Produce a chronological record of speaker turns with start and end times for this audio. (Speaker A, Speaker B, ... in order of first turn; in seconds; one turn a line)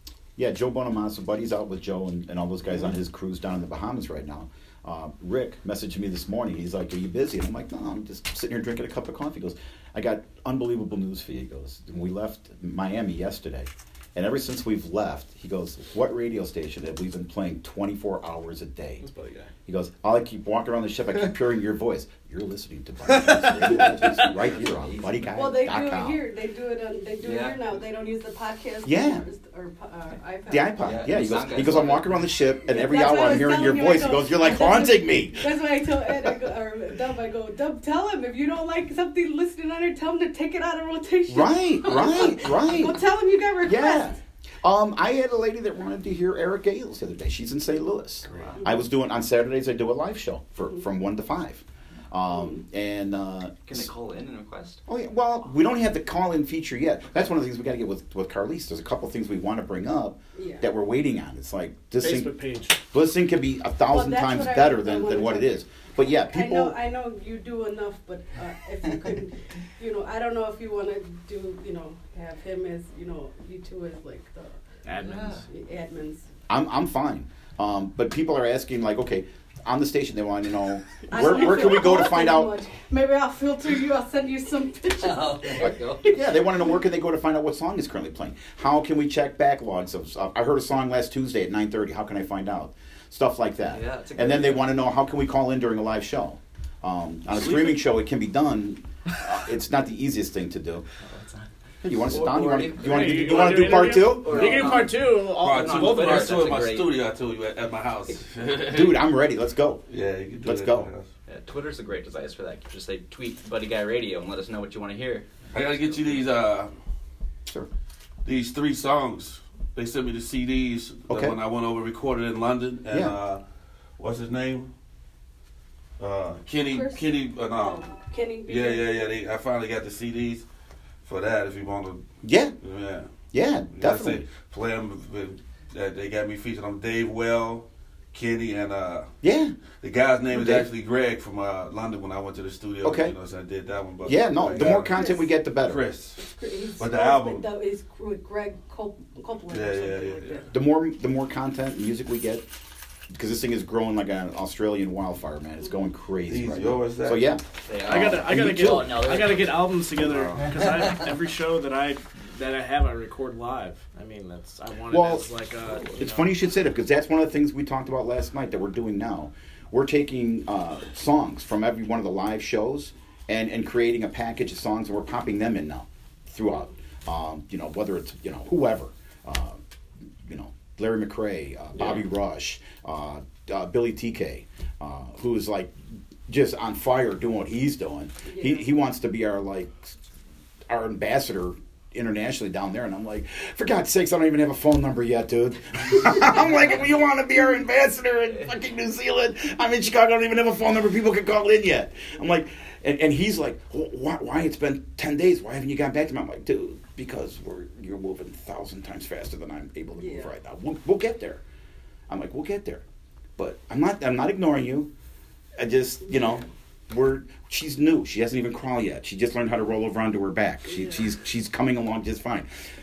Speaker A: 0.3-19.0
Speaker B: 19.0-19.5
Speaker A: 19.6-26.2
Speaker B: 23.0-24.4
Speaker C: 24.2-25.4
Speaker D: 25.3-31.1
Speaker C: 27.2-27.7
Speaker A: 28.8-29.2
Speaker A: 30.5-36.3
Speaker C: 30.8-32.2
Speaker D: 32.6-44.2
Speaker A: 41.3-43.0
Speaker A: 43.6-53.9
Speaker C: 48.2-48.6
Speaker B: 48.3-48.5
Speaker D: 48.6-48.9
Speaker D: 52.3-52.6
Speaker C: 53.7-54.8
Speaker A: 54.9-66.8
Speaker D: 60.3-60.7
Speaker B: 62.0-62.8
Speaker D: 63.9-74.6
Speaker B: 74.8-75.4
Speaker C: 75.0-75.4
Speaker D: 75.5-76.2
Speaker A: 76.5-82.6
Speaker D: 81.1-86.8
Speaker C: 85.0-86.2
Speaker A: 86.0-100.8
Speaker C: 93.7-94.8
Speaker B: 97.3-97.8
Speaker A: 101.8-104.7
Speaker C: 102.0-106.9
Speaker B: 102.6-106.6
Speaker E: 104.3-109.1
Speaker A: 108.7-109.8
Speaker E: 109.9-111.0
Speaker A: 110.4-110.9
Speaker C: 111.3-115.3
Speaker E: 115.5-116.7
Speaker E: 118.2-123.4
Speaker A: 121.1-121.3
Speaker E: 124.0-124.7
Speaker E: 126.0-127.9
Speaker D: 126.7-129.0
Speaker E: 128.4-130.4
Speaker E: 131.0-133.1
Speaker A: 132.2-132.6
Speaker A: 133.3-134.2
Speaker E: 133.7-139.1
Speaker A: 139.2-139.5
Speaker E: 139.8-147.5
Speaker A: 140.3-140.7
Speaker A: 142.8-143.1
Speaker A: 144.0-145.8
Speaker D: 144.5-145.3
Speaker D: 146.2-150.5
Speaker E: 149.5-150.5
Speaker A: 150.5-152.5
Speaker A: 153.1-159.0
Speaker E: 156.3-157.3
Speaker C: 157.6-159.7
Speaker B: 157.8-166.3
Speaker E: 160.0-160.5
Speaker A: 164.9-179.6
Speaker A: 180.2-185.7
Speaker A: 186.3-190.0
Speaker A: 190.7-211.4
Speaker A: 212.1-212.8
Speaker A: 213.4-214.9
Speaker A: 215.6-222.5